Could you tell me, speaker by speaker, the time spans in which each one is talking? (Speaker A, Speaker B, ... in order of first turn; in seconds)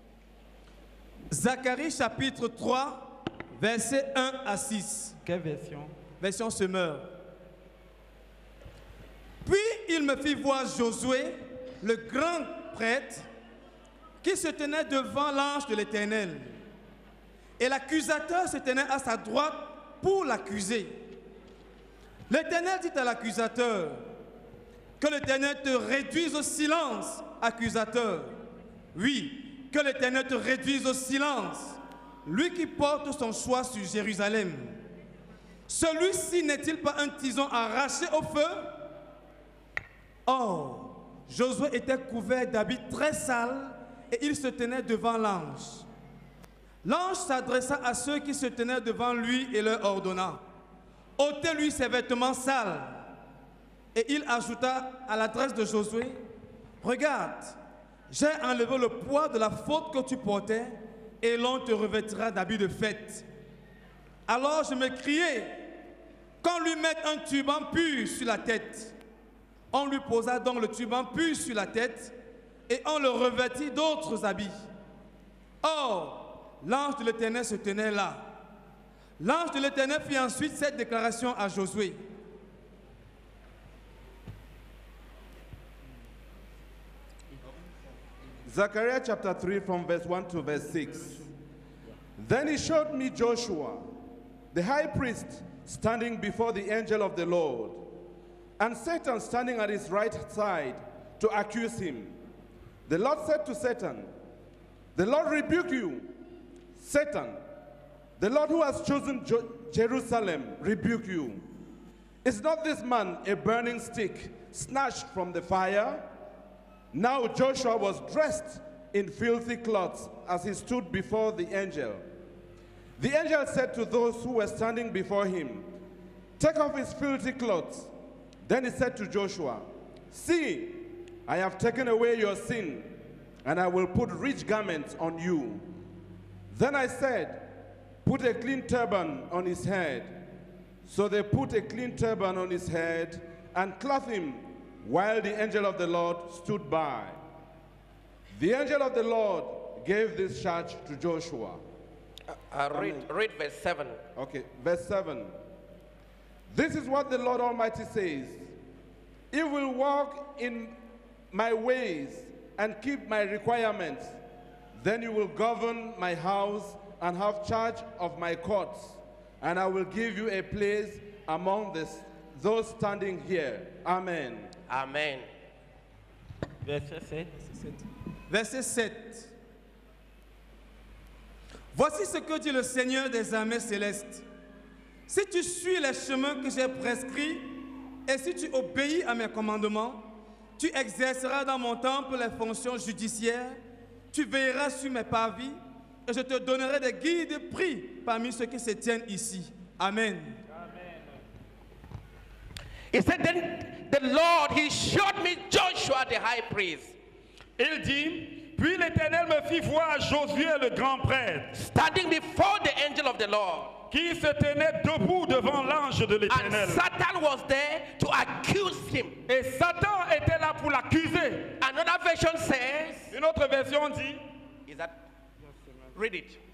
Speaker A: 1.3-5.1, 6.2-7.1, 9.4-13.3, 14.2-16.6, 17.6-21.0, 22.3-24.0, 25.0-28.4, 28.9-34.8, 35.7-38.7, 40.3-45.9, 46.8-50.4, 51.2-53.0, 53.9-56.2, 56.8-57.6, 58.1-63.2, 64.3-65.6, 66.4-68.9, 69.7-72.1, 72.7-74.6, 75.6-78.2, 79.2-82.0, 178.3-179.3, 181.7-184.2, 185.1-190.1, 190.6-193.6, 194.1-200.4
Speaker B: 5.2-5.9, 176.7-177.3, 200.5-201.0, 207.6-211.5, 213.9-216.8, 219.3-221.6, 223.1-224.2
Speaker C: 88.5-91.3, 92.2-93.9, 94.5-97.9, 98.6-102.2, 102.9-104.1, 105.0-106.2, 106.8-107.4, 108.2-111.4, 112.2-116.1, 116.9-122.1, 123.0-125.7, 126.4-127.9, 128.4-135.7, 136.5-137.5, 138.1-140.2, 140.8-147.2, 148.3-151.6, 152.7-153.1, 154.2-155.4, 156.5-158.5, 159.3-160.8, 161.3-164.2, 164.8-174.5
Speaker D: 152.3-154.0, 174.7-175.3, 202.9-206.9, 211.5-213.8, 216.3-219.2, 221.6-223.1, 224.7-224.9, 225.9-226.4